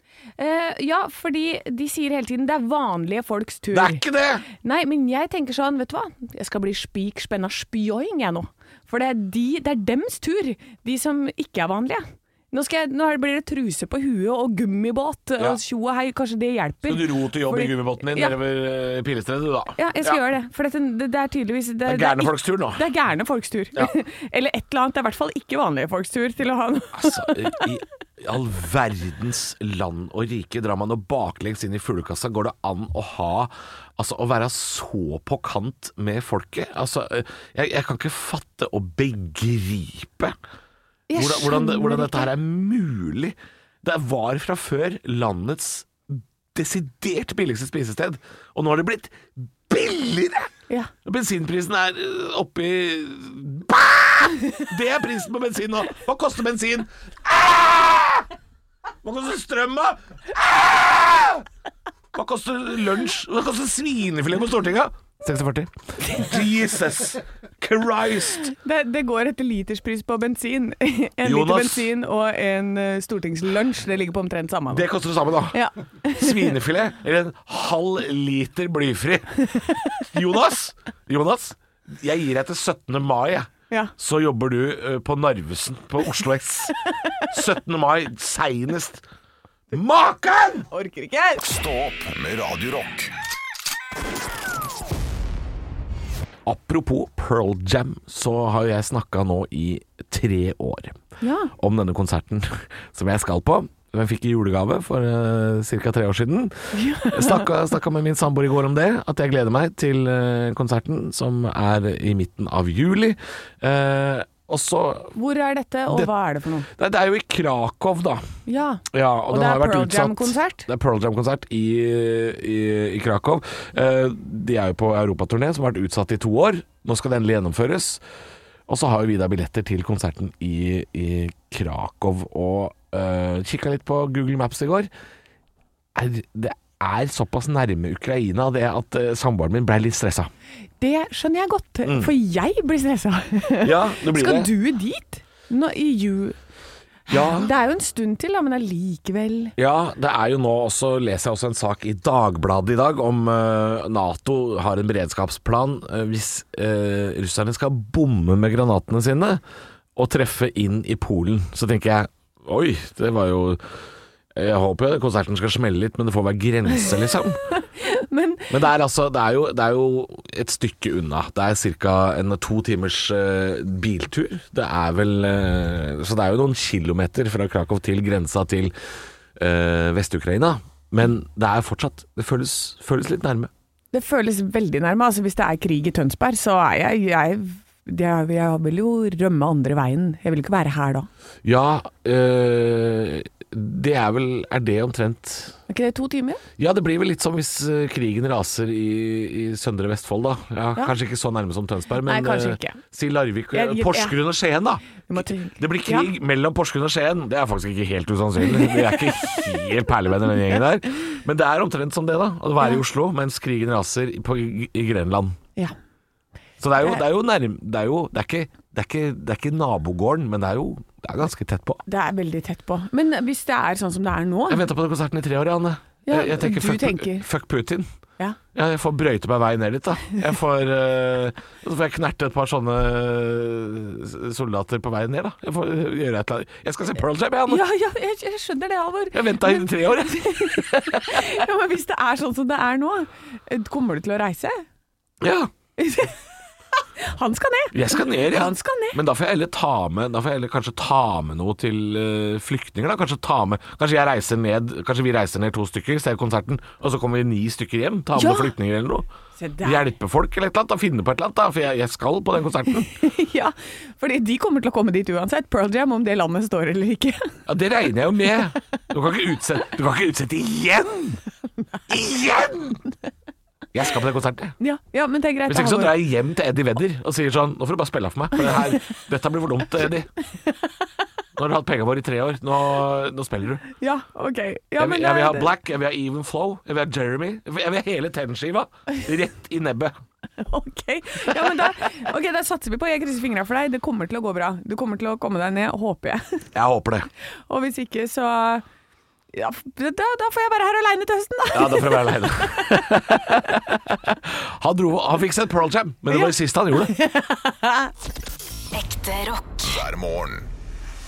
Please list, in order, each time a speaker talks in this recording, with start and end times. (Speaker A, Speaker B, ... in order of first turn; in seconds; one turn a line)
Speaker A: 0.4-18.4
Speaker B: 3.7-4.4
Speaker B: 16.8-20.2
Speaker A: 19.8-27.6
Speaker B: 21.8-22.8
Speaker B: 26.9-40.4
Speaker A: 41.1-42.3
Speaker B: 41.1-50.5
Speaker B: 51.0-58.3
Speaker B: 59.0-61.5
Speaker B: 62.1-68.5
Speaker A: 68.5-74.9
Speaker B: 71.2-71.9
Speaker B: 74.7-79.5
Speaker A: 75.5-76.5
Speaker A: 79.5-79.8
Speaker B: 80.0-86.8
Speaker B: 87.3-89.0
Speaker B: 89.7-90.7
Speaker A: 90.7-91.4
Speaker C: 91.4-93.1
Speaker B: 96.5-101.0
Speaker A: 101.2-101.5
Speaker B: 101.6-115.1
Speaker A: 106.7-107.5
Speaker A: 115.1-116.7
Speaker B: 116.7-118.2
Speaker A: 118.5-120.7
Speaker B: 118.9-128.0
Speaker B: 128.7-134.9
Speaker B: 135.9-140.3
Speaker A: 140.8-146.4
Speaker B: 141.8-142.1
Speaker B: 143.6-144.5
Speaker B: 147.1-147.5
Speaker A: 147.1-149.5
Speaker B: 149.6-159.4
Speaker B: 159.9-163.6
Speaker B: 164.3-167.4
Speaker A: 167.5-168.5
Speaker B: 168.5-178.7
Speaker B: 179.4-183.5
Speaker A: 183.9-191.1
Speaker B: 191.4-195.6
Speaker A: 195.7-196.4
Speaker B: 196.6-215.4
Speaker A: 202.0-202.8
Speaker A: 203.5-204.2
Speaker A: 205.1-206.1
Speaker A: 208.5-209.4
Speaker B: 216.6-221.8
Speaker A: 221.8-224.6
Speaker B: 224.5-227.9
Speaker A: 226.1-227.2
Speaker B: 228.5-237.6
Speaker A: 237.5-244.6
Speaker B: 239.1-241.4
Speaker B: 245.2-245.5
Speaker A: 245.8-246.2
Speaker A: 246.8-249.0
Speaker B: 247.7-259.1
Speaker A: 258.1-258.5
Speaker A: 259.4-259.9
Speaker B: 259.6-262.9
Speaker A: 262.9-267.3
Speaker B: 267.4-271.2
Speaker B: 271.9-272.8
Speaker B: 273.7-274.6
Speaker A: 274.6-275.9
Speaker B: 275.5-280.1
Speaker B: 281.4-283.6
Speaker A: 283.8-285.5
Speaker B: 284.8-289.9
Speaker A: 290.4-296.5
Speaker B: 296.5-297.1
Speaker A: 297.5-298.6
Speaker A: 299.3-303.0
Speaker B: 301.5-306.9
Speaker A: 306.9-307.9
Speaker C: 309.5-310.5